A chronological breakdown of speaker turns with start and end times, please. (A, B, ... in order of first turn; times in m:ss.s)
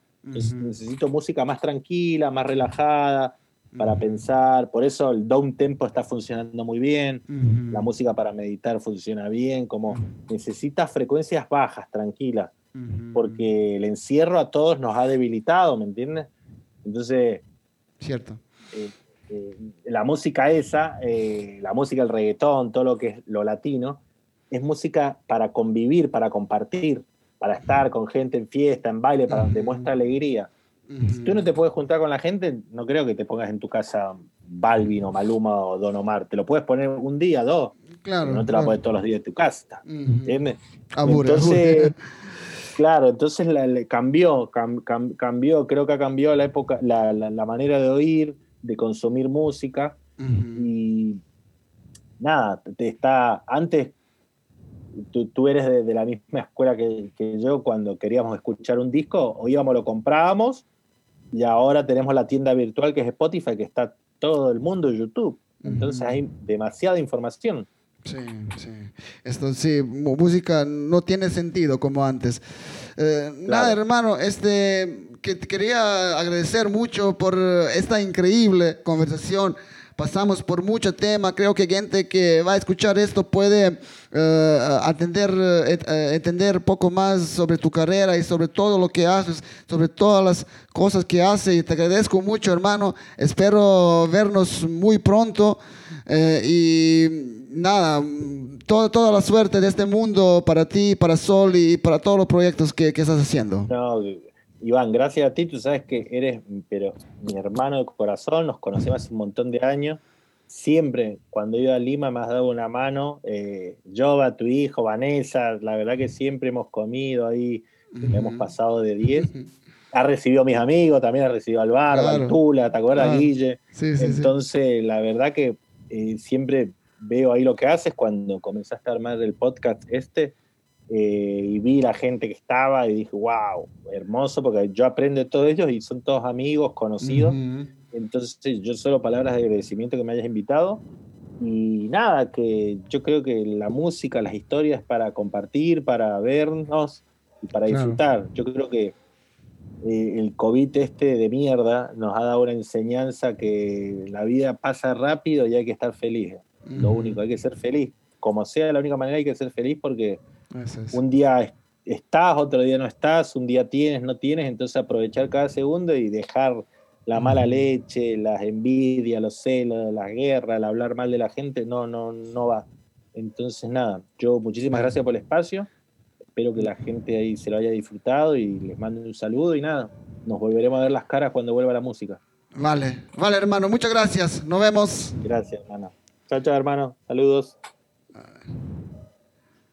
0:00.2-0:00.8 A
0:00.4-0:12.5 B
0:03.8-0:04.2 A
0:07.3-0:07.9 A
0:12.8-0:13.5 A
0:13.1-0:16.3 B
0:16.8-0:17.4 B
0:18.0-0:18.4 A
0:18.7-0:30.5 B
0:29.3-0:29.9 A
0:30.9-0:31.4 A
0:31.2-0:41.9 B
0:38.0-0:38.8 A
0:39.9-0:40.4 A
0:41.0-0:42.0 A
0:42.8-0:50.0 B
0:50.2-0:50.7 A
0:50.6-0:51.2 B
0:52.2-0:54.0 B
0:55.0-1:00.6 B
1:01.3-1:07.7 B
1:05.6-1:06.2 A
1:08.0-1:12.4 A
1:13.0-1:43.7 A
1:13.5-1:13.8 B
1:43.7-1:59.3 B
1:58.0-1:58.5 A
1:59.2-1:59.4 A
1:59.9-2:10.4 B
2:01.9-2:02.4 A
2:03.0-2:04.3 A
2:10.9-2:17.4 B
2:17.0-2:17.7 A
2:17.9-2:20.8 B
2:21.4-2:29.0 B
2:27.7-2:28.0 A
2:29.8-2:40.2 B
2:36.7-2:37.2 A
2:40.6-2:41.0 A
2:40.9-2:55.7 B
2:47.2-2:47.6 A
2:56.4-3:02.2 B
3:02.6-3:05.2 A
3:05.2-3:07.6 B